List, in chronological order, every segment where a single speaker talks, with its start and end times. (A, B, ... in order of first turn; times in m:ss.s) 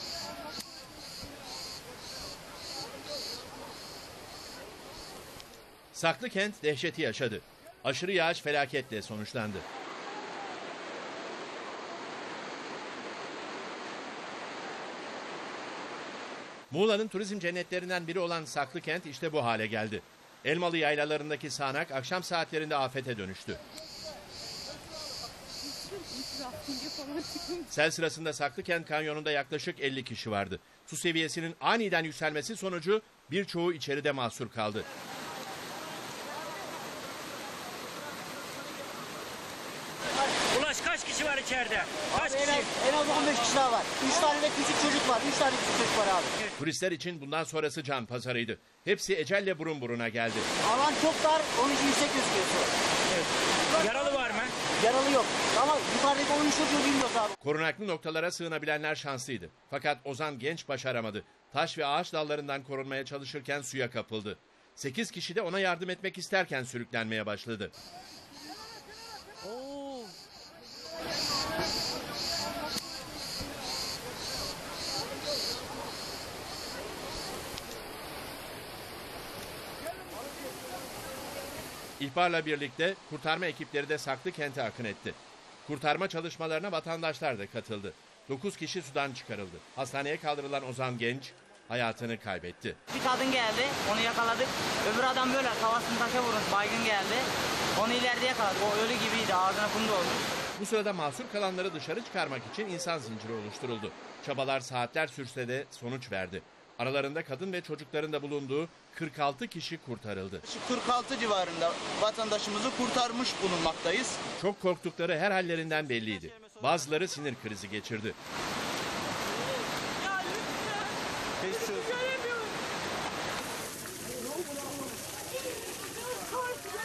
0:05.9-0:09.6 A
0:16.7-0:23.6 A
0:26.2-0:27.2 B
0:27.7-0:34.9 A
0:40.5-0:42.3 B
0:42.1-0:46.3 C
0:46.6-0:50.5 A
0:50.6-0:52.7 C
0:53.8-0:54.2 C
0:53.8-0:54.5 B
0:54.7-0:57.3 C
0:57.4-1:07.7 A
1:09.4-1:10.1 B
1:22.0-1:32.8 A
1:32.9-1:40.2 D
1:40.6-1:50.4 A
1:50.4-1:54.2 E
1:54.4-1:58.2 A
2:01.4-2:02.1 E